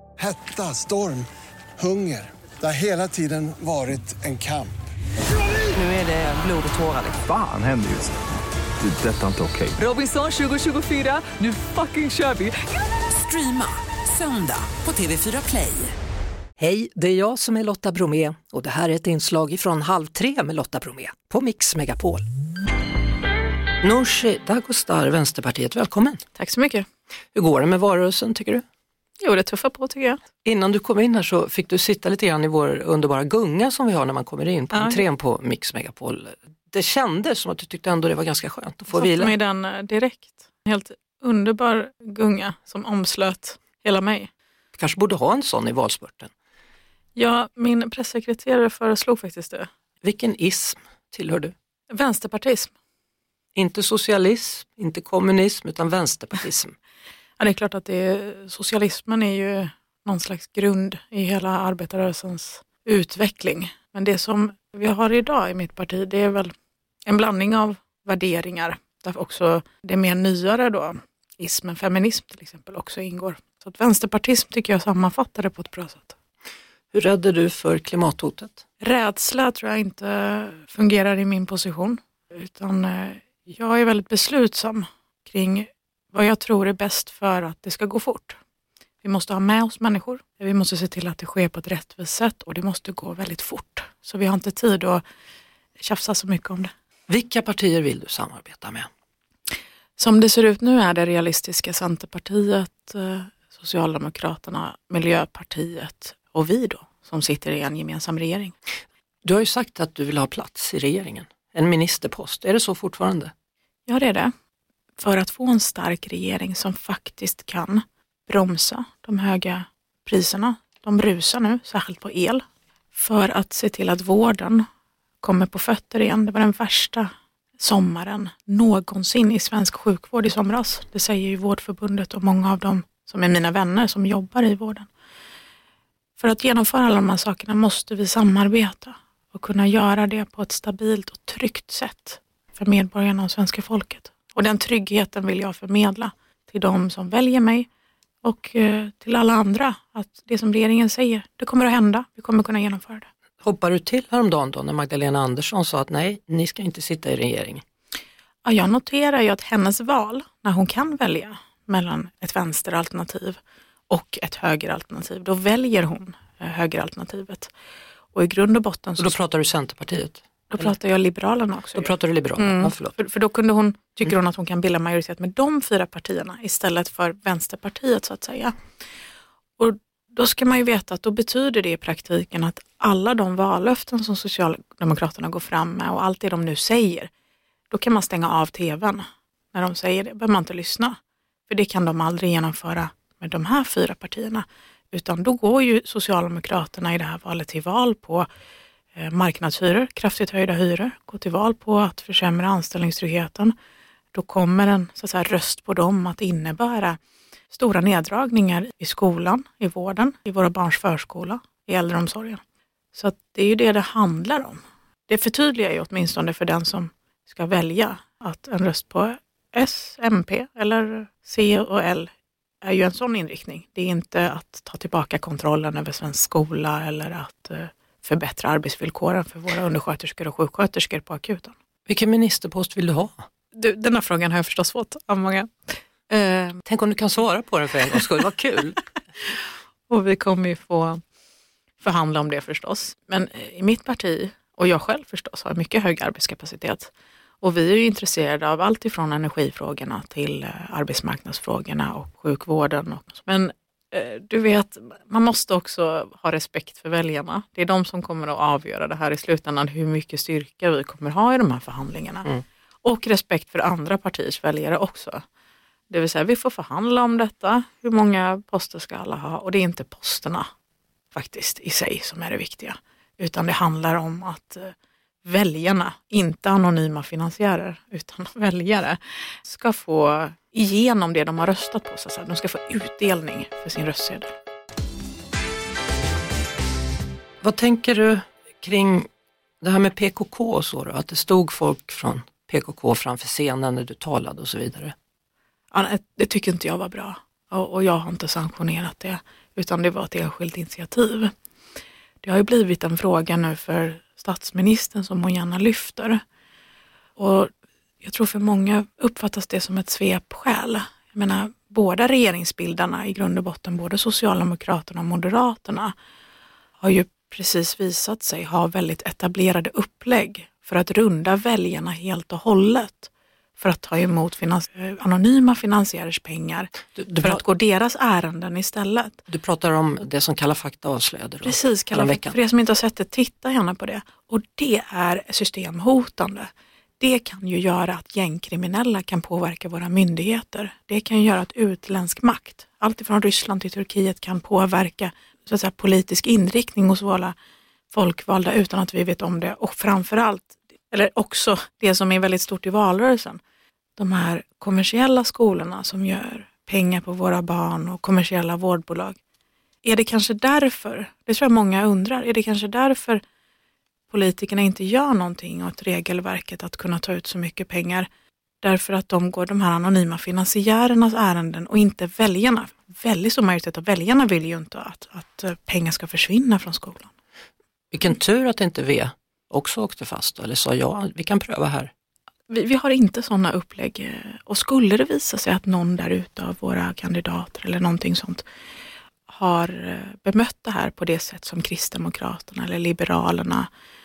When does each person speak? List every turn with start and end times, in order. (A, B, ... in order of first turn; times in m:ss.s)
0:00.2-0:04.7 A
0:05.7-0:07.2 B
0:07.2-0:08.2 C
0:08.8-0:09.8 C
0:09.8-0:12.6 B
0:13.1-0:15.9 B
0:16.6-0:22.2 D
0:23.8-0:26.2 D
0:26.3-0:26.8 E
0:27.3-0:28.6 D
0:29.2-0:30.2 E
0:30.4-0:39.3 D
0:34.7-0:35.0 E
0:38.9-0:44.3 E
0:44.7-0:46.3 D
0:47.1-0:49.7 E
0:50.0-0:51.5 D
0:51.9-0:52.7 E
0:53.6-0:56.7 D
0:57.4-1:06.5 E
1:07.0-1:16.1 E
1:16.9-1:18.6 D
1:18.8-1:28.4 E
1:29.0-1:35.0 E
1:35.8-1:36.7 E
1:37.1-1:38.9 D
1:40.0-1:48.5 E
1:49.2-1:53.3 D
1:53.8-1:54.3 E
1:55.0-2:02.4 E
2:02.9-2:04.6 E
2:05.2-2:14.9 E
2:16.2-2:27.7 E
2:28.2-2:33.1 E
2:33.4-2:37.6 D
2:38.4-2:47.5 E
2:48.1-2:49.2 E
2:49.0-2:50.7 D
2:50.5-2:58.5 E
2:51.8-2:52.9 D
2:59.6-3:07.1 E
3:07.7-3:11.0 E
3:11.5-3:18.3 E
3:19.0-3:23.5 E
3:24.1-3:27.0 E
3:27.5-3:32.4 E
3:32.9-3:42.1 E
3:42.6-3:51.5 E
3:51.9-3:53.2 D
3:53.5-3:56.6 E
3:56.7-3:58.8 D
3:59.9-4:01.0 E
4:01.8-4:22.3 E
4:22.8-4:25.2 E
4:25.9-4:30.5 E
4:31.1-4:34.7 E
4:35.2-4:44.3 E
4:47.4-4:49.1 D
4:49.6-4:54.9 D
4:55.7-5:01.3 E
5:02.2-5:06.2 E
5:07.2-5:15.9 E
5:16.8-5:29.2 E
5:27.0-5:27.4 D
5:29.3-5:32.3 D
5:31.4-5:47.3 E
5:47.9-5:53.4 E
5:54.0-5:59.2 E
5:59.8-6:03.2 E
6:04.1-6:08.1 E
6:08.6-6:17.1 E
6:17.9-6:21.9 D
6:22.5-6:28.4 E
6:29.3-6:33.7 E